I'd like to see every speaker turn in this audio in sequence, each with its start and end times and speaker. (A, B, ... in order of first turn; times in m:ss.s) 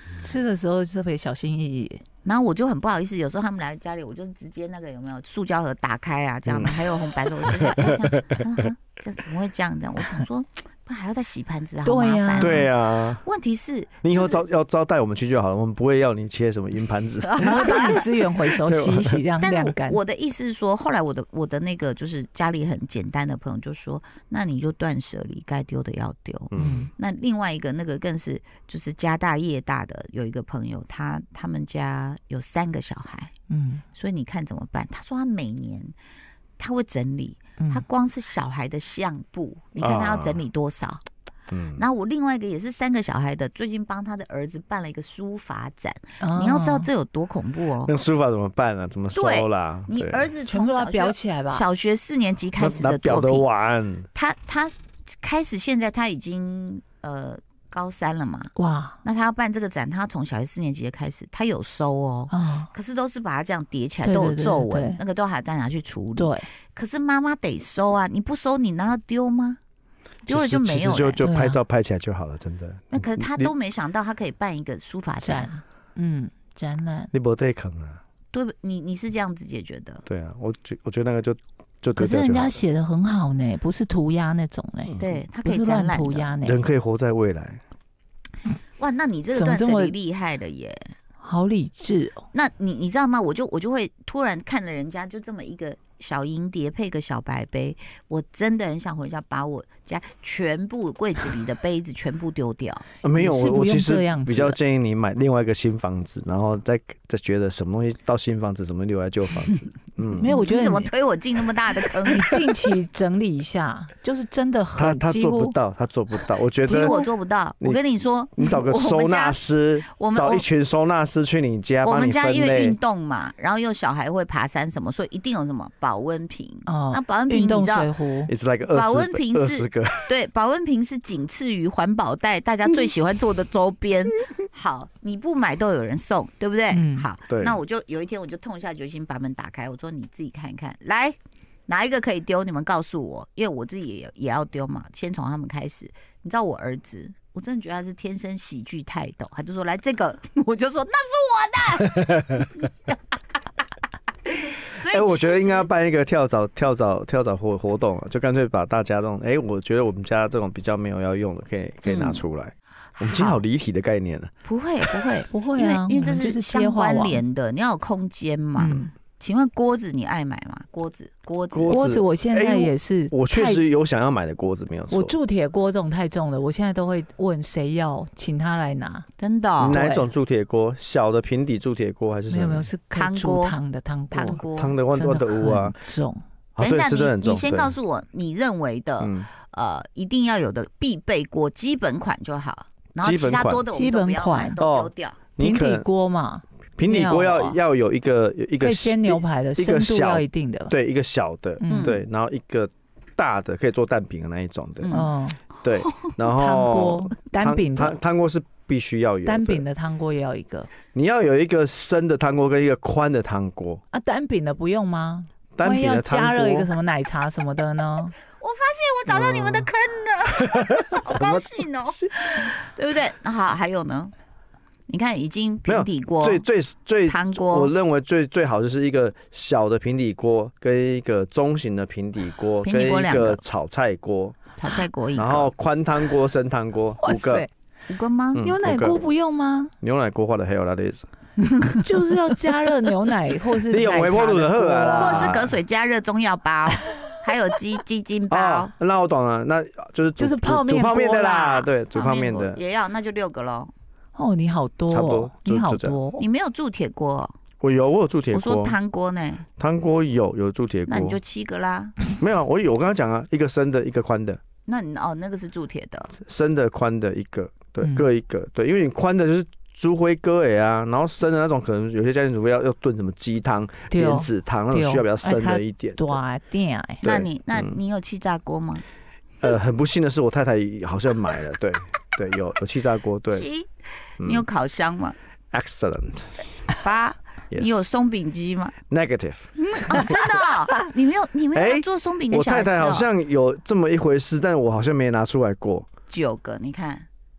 0:00.2-0:02.0 A
0:02.2-0:14.4 B
0:06.5-0:06.8 C
0:07.6-0:08.4 C
0:11.8-0:12.7 A
0:12.4-0:13.2 C
0:14.0-0:18.0 C
0:17.2-0:18.0 B
0:17.4-0:20.0 A
0:18.6-0:19.2 C
0:19.4-0:33.3 B
0:26.5-0:26.9 C
0:26.6-0:26.9 A
0:33.5-0:33.8 A
0:34.0-0:36.0 B
0:36.6-0:41.0 B
0:37.6-0:37.8 A
0:39.8-0:40.4 C
0:41.5-0:41.8 C
0:41.8-0:47.9 B
0:46.2-0:46.9 A
0:47.8-0:50.3 C
0:49.1-0:53.5 B
0:50.5-0:51.6 A
0:52.6-0:54.1 C
0:54.1-0:58.5 B
0:58.6-0:59.0 A
0:59.0-1:09.6 B
1:02.3-1:02.7 A
1:04.0-1:05.0 A
1:06.2-1:06.5 A
1:10.3-1:11.2 B
1:10.3-1:13.5 C
1:11.2-1:11.6 A
1:12.9-1:15.6 B
1:15.2-1:17.1 A
1:17.1-1:18.0 C
1:18.3-1:20.0 B
1:20.1-1:22.6 C
1:22.0-1:26.6 A
1:24.9-1:25.2 C
1:25.0-1:26.3 B
1:26.4-1:27.6 C
1:28.8-1:31.0 B
1:29.3-1:29.9 A
1:31.2-1:32.2 A
1:32.3-1:42.8 B
1:43.0-1:50.3 C
1:43.1-1:44.6 A
1:50.1-1:50.9 A
1:50.3-1:52.4 B
1:52.1-1:55.6 A
1:54.8-1:57.0 C
1:56.6-1:57.1 A
1:56.6-2:00.4 B
1:58.4-2:02.8 C
2:01.8-2:07.9 B
2:06.7-2:08.3 A
2:08.3-2:10.1 C
2:08.7-2:21.2 B
2:16.7-2:17.1 A
2:17.3-2:17.6 C
2:21.7-2:32.9 B
2:34.4-2:35.7 B
2:34.9-2:44.3 C
2:41.9-2:42.2 B
2:43.0-2:43.4 B
2:44.4-2:52.0 B
2:45.3-2:47.2 A
2:48.6-2:48.9 A
2:51.5-2:55.2 C
2:51.7-2:53.6 A
2:54.9-2:59.1 A
2:59.2-2:59.8 B
2:59.6-3:02.7 C
2:59.6-3:00.1 A
3:02.3-3:06.2 A
3:02.9-3:03.6 B
3:04.1-3:04.8 B
3:04.2-3:05.8 C
3:06.6-3:07.7 C
3:06.6-3:15.2 B
3:09.0-3:09.3 C
3:13.0-3:13.6 C
3:13.7-3:14.6 A
3:14.6-3:15.9 C
3:15.4-3:17.6 A
3:16.8-3:25.0 C
3:18.6-3:20.8 A
3:21.6-3:22.0 A
3:21.7-3:22.0 B
3:24.8-3:25.1 B
3:24.9-3:25.4 A
3:25.6-3:29.6 C
3:25.8-3:26.1 B
3:26.2-3:28.0 A
3:29.2-3:30.7 A
3:30.9-3:33.8 C
3:33.9-3:38.1 A
3:35.6-3:36.7 C
3:38.3-3:44.1 B
3:39.1-3:39.7 C
3:40.5-3:42.1 C
3:44.9-3:46.4 B
3:45.7-3:54.4 C
3:47.1-3:47.7 B
3:52.6-3:53.4 B
3:54.6-3:55.5 B
3:55.2-3:57.5 C
3:57.0-3:57.5 A
3:57.9-3:58.4 B
3:58.4-3:59.0 C
3:58.4-3:59.7 A
3:59.8-4:01.1 C
4:01.8-4:05.3 A
4:03.6-4:05.6 C
4:04.9-4:08.7 B
4:08.3-4:12.6 C
4:10.2-4:11.5 A
4:11.5-4:13.7 B
4:14.2-4:16.2 A
4:14.9-4:16.0 C
4:16.2-4:17.3 B
4:17.6-4:18.8 C
4:18.3-4:19.4 B
4:19.6-4:21.2 C
4:20.9-4:22.0 B
4:22.2-4:24.4 C
4:24.7-4:26.1 B
4:26.2-4:36.2 C
4:33.9-4:37.0 A
4:37.0-4:37.8 C
4:37.0-4:38.8 B
4:39.4-4:43.4 C
4:43.3-4:45.2 B
4:45.5-4:46.5 C
4:46.8-4:48.8 B
4:48.9-4:49.5 C
4:49.6-4:53.1 B
4:51.6-4:55.9 C
4:56.1-4:57.1 B